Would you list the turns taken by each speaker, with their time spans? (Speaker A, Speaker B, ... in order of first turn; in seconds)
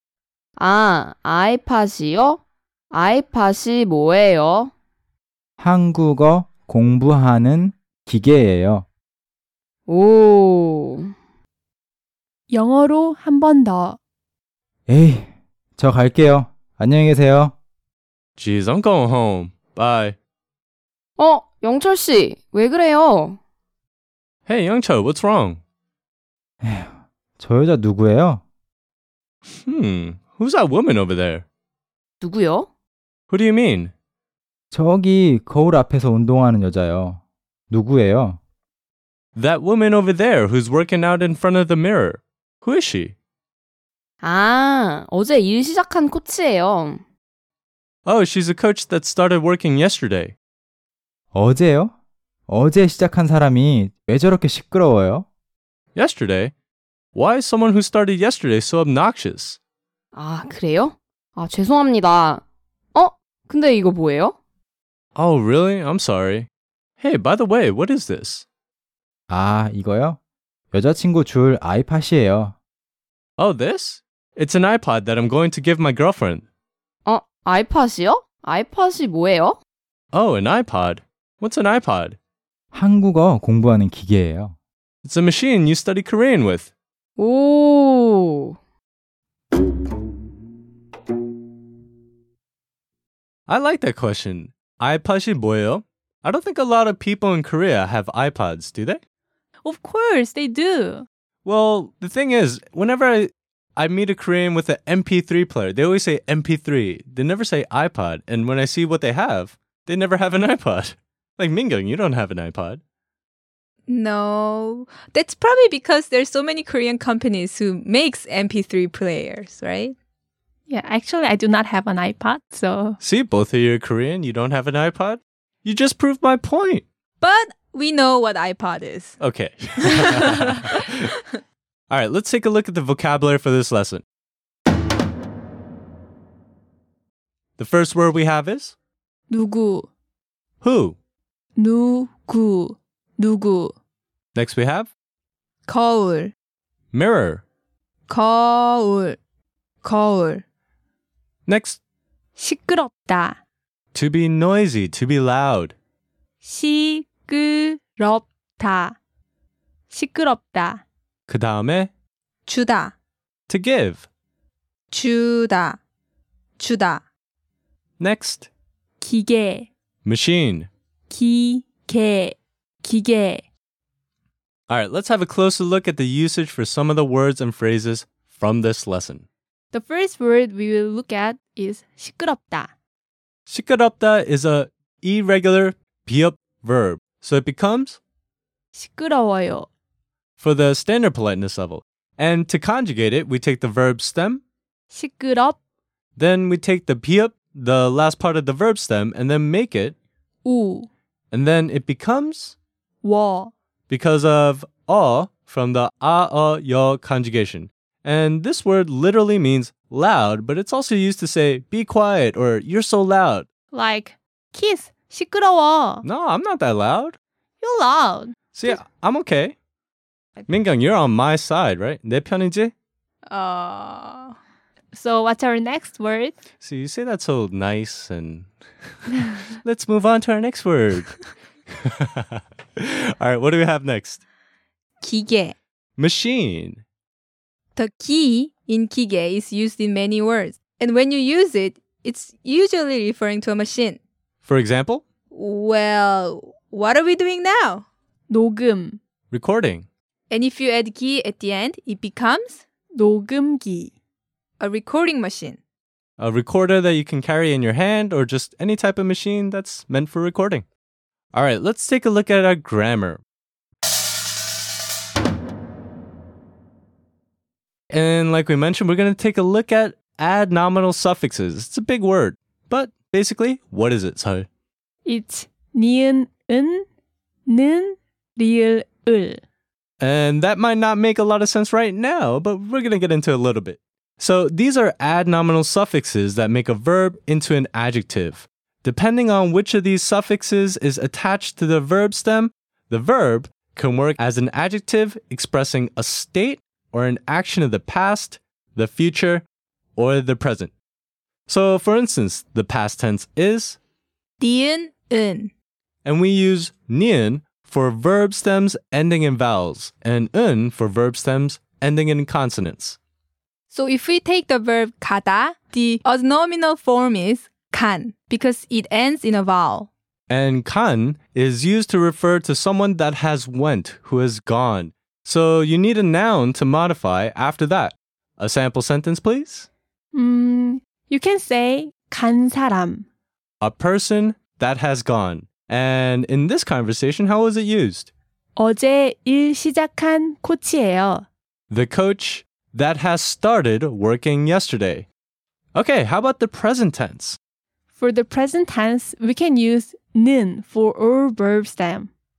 Speaker A: 0.6-4.7, 9.9-11.1, 21.2-23.4, 32.2-32.7, 44.2-47.0, 60.1-64.4, 77.1-79.6, 87.2-88.6
Speaker B: 5.6-8.9, 14.9-17.5, 26.6-28.4, 34.7-38.4, 51.3-51.9, 52.5-55.2, 69.3-70.2, 70.7-72.5, 82.7-84.6
Speaker C: 12.5-14.0, 99.6-101.1, 120.7-123.0, 139.3-139.9, 141.6-143.8, 152.4-153.4, 156.4-159.0, 159.9-160.8, 169.0-169.7, 171.1-173.4, 179.7-182.7, 188.7-189.7, 194.9-195.6, 200.4-200.9, 203.0-203.5, 213.7-216.1, 217.6-218.8, 224.9-226.4, 248.3-249.0, 252.9-253.9, 275.1-276.9, 277.5-279.4, 330.1-333.1, 338.6-341.3, 348.0-352.1
Speaker D: 18.4-20.2, 24.5-25.6, 29.6-31.4, 33.3-33.9, 39.4-43.1, 48.1-50.4, 55.9-56.5, 57.1-59.6, 65.1-66.5, 67.0-68.5, 73.4-76.5, 80.1-82.2, 85.0-86.7, 93.5-99.0, 101.4-112.8, 123.0-126.8, 129.2-131.1, 131.9-134.1, 137.6-138.8, 140.6-141.0, 144.3-144.9, 146.9-147.4, 151.5-151.8, 153.9-155.8, 161.3-161.9, 163.5-164.1, 168.0-168.5, 170.1-170.7, 174.7-179.2, 183.5-188.0, 190.4-194.4, 196.2-199.9, 201.3-202.6, 203.9-213.5, 216.1-217.2, 218.6-219.6, 220.5-222.7, 226.6-228.5, 229.1-231.2, 231.8-234.2, 236.0-236.8, 244.4-245.0, 249.3-249.9, 256.2-260.7, 261.3-263.2, 267.9-274.5, 280.0-300.7, 301.5-303.8, 306.1-313.0, 320.3-329.7, 333.6-338.1, 341.7-345.1, 345.8-347.4
Speaker E: 113.9-120.0, 127.2-129.2, 129.8-130.2, 145.7-146.3, 148.1-149.2, 149.8-150.4, 162.5-162.9, 164.9-165.8, 166.6-167.0, 223.3-224.4, 235.0-235.6, 237.8-244.0, 245.3-247.9, 250.3-252.6, 254.6-255.6, 304.4-305.5, 313.7-319.9